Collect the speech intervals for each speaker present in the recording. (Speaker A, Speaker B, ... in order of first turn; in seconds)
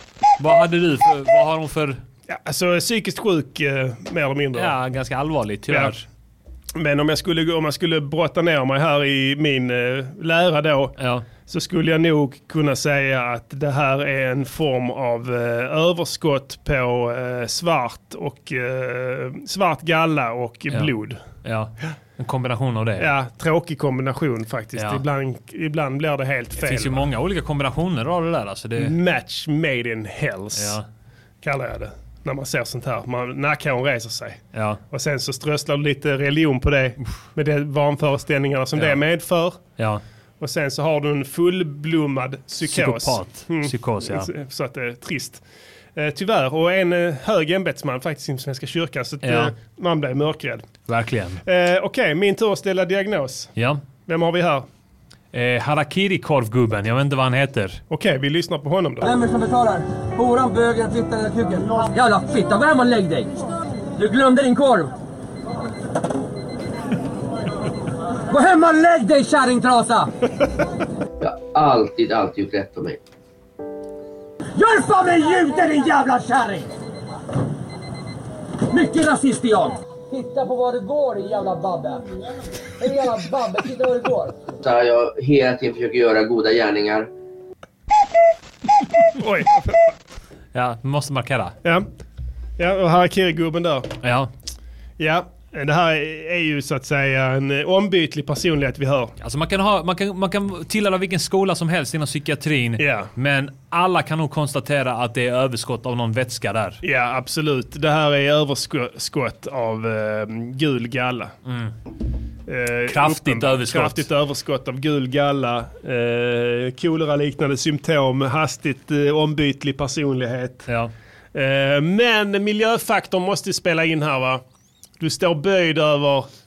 Speaker A: 0.4-2.0, 4.5-6.1, 11.0-11.3, 21.4-23.1, 24.8-25.0, 26.6-28.9, 30.6-30.9, 34.5-34.8, 38.8-39.0, 39.8-40.0, 42.6-44.3, 49.2-49.5, 50.9-51.4, 53.6-53.8, 55.3-57.8, 90.5-91.6, 94.0-94.3, 99.2-106.8, 111.5-111.7, 112.9-114.1, 120.7-120.9
Speaker B: 2.3-4.7, 6.8-11.0, 11.5-21.2, 23.0-27.1, 28.8-30.8, 31.4-39.6, 40.4-45.4, 46.0-50.7, 51.4-53.5, 54.1-54.7, 57.9-59.1, 89.2-89.8, 92.6-93.9, 95.0-99.1, 102.8-103.1, 106.8-111.3, 112.5-120.7, 121.3-124.4, 125.0-126.3
Speaker C: 59.0-63.3, 64.0-64.9, 68.3-70.1, 74.5-76.7, 78.7-82.0, 82.8-84.4
Speaker D: 71.2-73.0, 84.6-87.1